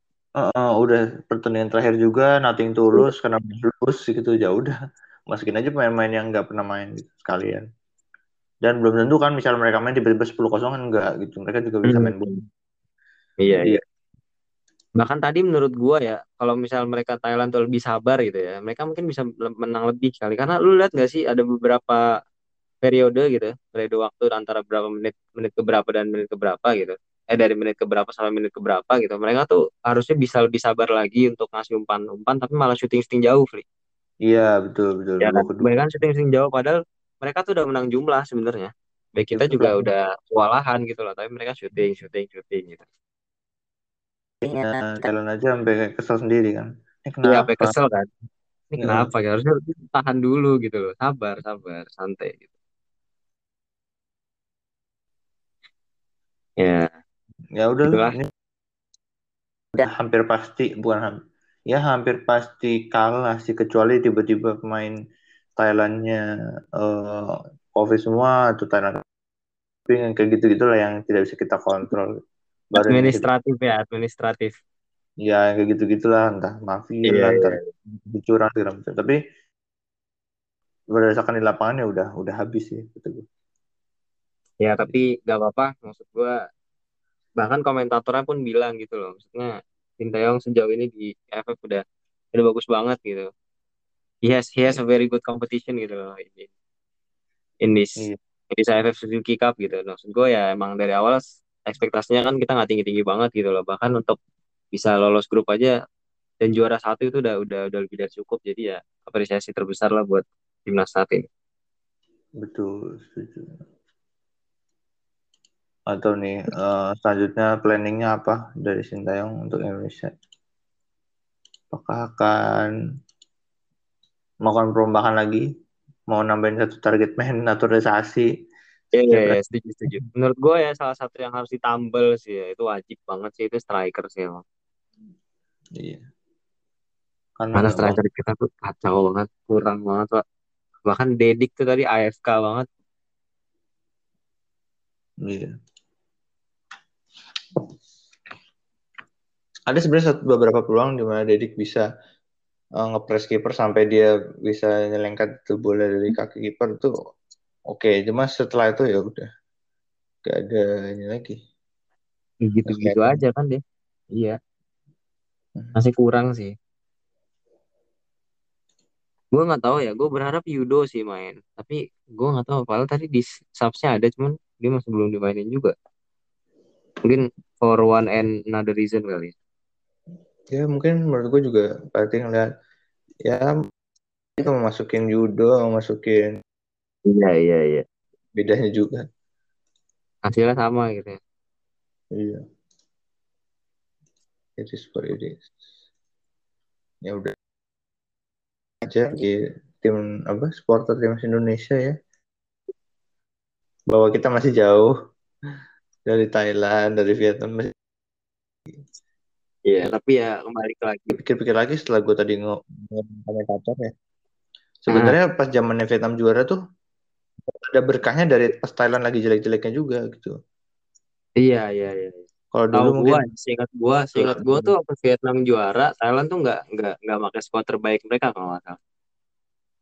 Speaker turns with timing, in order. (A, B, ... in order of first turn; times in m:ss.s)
0:00.4-0:04.7 A
0:05.3-0:07.6 A
0:08.6-0:12.4 A
0:11.8-0:12.3 B
0:13.4-0:13.8 B
0:15.0-0:22.0 B
0:22.8-0:33.6 B
0:34.2-0:35.7 A
0:35.2-0:42.8 B
0:39.3-0:39.9 A
0:44.5-0:47.7 A
0:47.2-0:48.1 B
0:48.7-0:52.5 B
0:48.8-0:49.1 A
0:56.6-0:56.9 B
0:57.6-0:58.3 A
0:57.9-0:58.2 B
0:59.8-1:01.1 A
1:01.7-1:04.9 A
1:05.6-1:06.2 A
1:06.8-1:09.0 A
1:09.9-1:12.1 A
1:12.7-1:13.2 A
1:12.8-1:14.6 B
1:15.2-1:19.2 A
1:17.1-1:17.6 B
1:20.9-1:23.2 A
1:24.6-1:26.3 B
1:27.4-1:31.8 B
1:32.3-1:33.3 B
1:34.2-1:36.5 B
1:37.6-1:44.2 B
1:44.7-1:45.7 B
1:46.4-1:51.2 B
1:52.4-1:53.5 A
1:55.9-2:00.1 A
2:01.7-2:02.7 A
2:04.4-2:05.4 A
2:06.1-2:08.2 A
2:08.9-2:14.4 B
2:09.1-2:09.4 A
2:17.4-2:18.0 A
2:17.5-2:20.2 B
2:20.8-2:22.6 B
2:25.2-2:25.5 A
2:29.7-2:31.8 A
2:32.8-2:36.9 A
2:37.7-2:39.3 A
2:40.2-2:41.4 A
2:42.4-2:43.6 B
2:42.7-2:43.2 A
2:45.7-2:46.5 B
2:49.3-2:55.7 B
2:57.0-2:59.3 B
3:00.5-3:02.4 A
3:04.4-3:06.4 A
3:07.1-3:07.8 B
3:08.3-3:09.0 A
3:10.3-3:11.2 B
3:12.1-3:12.4 A
3:14.6-3:15.5 A
3:17.0-3:17.3 A
3:18.8-3:21.9 A
3:23.9-3:24.9 A
3:26.1-3:27.7 A
3:29.7-3:31.2 B
3:31.1-3:33.9 A
3:34.9-3:36.6 A
3:34.9-3:35.2 B
3:37.5-3:40.3 A
3:41.4-3:42.2 B
3:42.5-3:43.2 A
3:42.7-3:48.8 B
3:44.1-3:44.7 A